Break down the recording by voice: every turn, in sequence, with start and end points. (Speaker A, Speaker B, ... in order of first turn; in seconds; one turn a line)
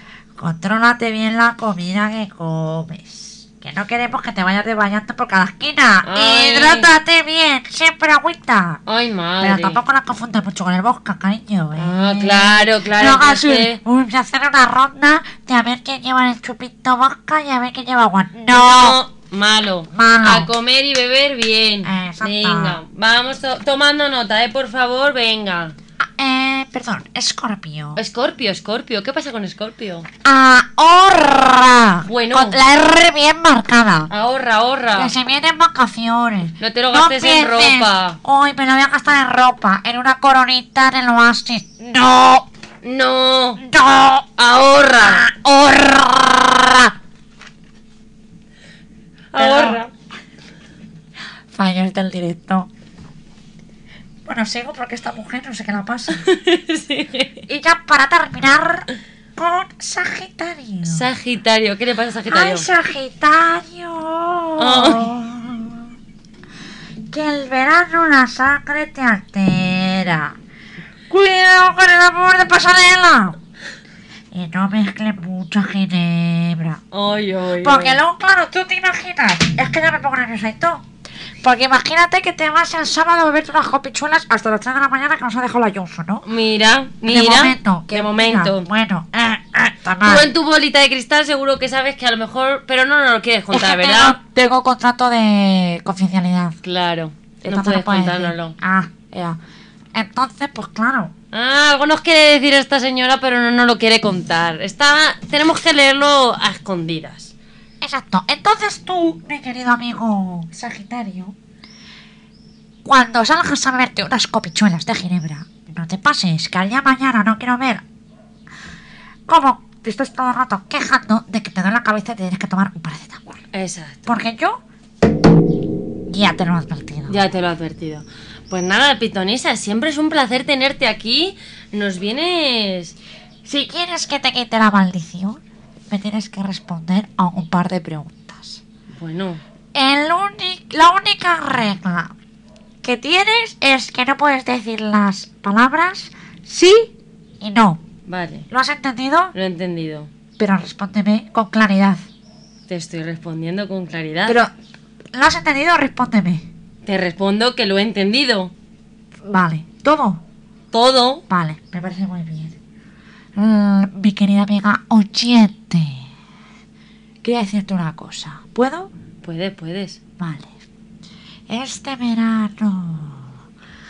Speaker A: 0.4-8.8
Speaker B: 6.0-6.9
Speaker B: 8.9-9.8
Speaker A: 9.4-19.0
Speaker B: 11.8-13.8
Speaker B: 18.5-25.8
Speaker A: 19.9-20.5
Speaker A: 21.9-22.8
Speaker A: 26.0-28.0
Speaker B: 28.0-30.1
Speaker A: 30.2-34.1
Speaker B: 32.1-32.6
Speaker B: 34.1-35.1
Speaker A: 35.0-42.5
Speaker B: 36.6-38.2
Speaker B: 42.8-43.6
Speaker A: 43.6-44.3
Speaker B: 44.4-45.3
Speaker A: 45.0-46.9
Speaker B: 49.3-49.9
Speaker A: 49.4-49.8
Speaker A: 51.5-52.7
Speaker A: 54.3-56.2
Speaker B: 56.2-57.4
Speaker A: 57.5-61.1
Speaker B: 60.8-62.7
Speaker A: 62.3-66.0
Speaker B: 64.6-65.1
Speaker A: 67.1-70.4
Speaker A: 71.1-73.4
Speaker A: 74.3-76.8
Speaker B: 76.9-78.0
Speaker A: 77.6-80.8
Speaker A: 81.4-86.2
Speaker B: 86.2-88.7
Speaker A: 87.1-90.3
Speaker B: 90.0-94.2
Speaker A: 93.5-96.6
Speaker B: 96.6-98.6
Speaker A: 97.4-99.4
Speaker A: 99.9-101.1
Speaker B: 101.3-107.3
Speaker A: 107.8-111.3
Speaker A: 112.8-117.8
Speaker A: 119.3-123.4
Speaker B: 123.5-124.1
Speaker A: 124.1-124.6
Speaker A: 126.1-127.2
Speaker B: 127.1-133.0
Speaker A: 133.4-138.6
Speaker B: 138.9-139.4
Speaker A: 139.7-142.1
Speaker A: 142.8-147.8
Speaker B: 148.1-148.5
Speaker A: 148.5-149.3
Speaker B: 149.3-150.1
Speaker A: 150.4-152.1
Speaker B: 152.7-154.4
Speaker A: 155.1-156.5
Speaker B: 156.8-158.5
Speaker A: 159.2-160.2
Speaker B: 160.7-161.2
Speaker A: 161.3-162.6
Speaker A: 163.4-166.1
Speaker A: 167.2-168.9
Speaker B: 169.2-170.0
Speaker A: 170.2-170.5
Speaker A: 171.5-173.3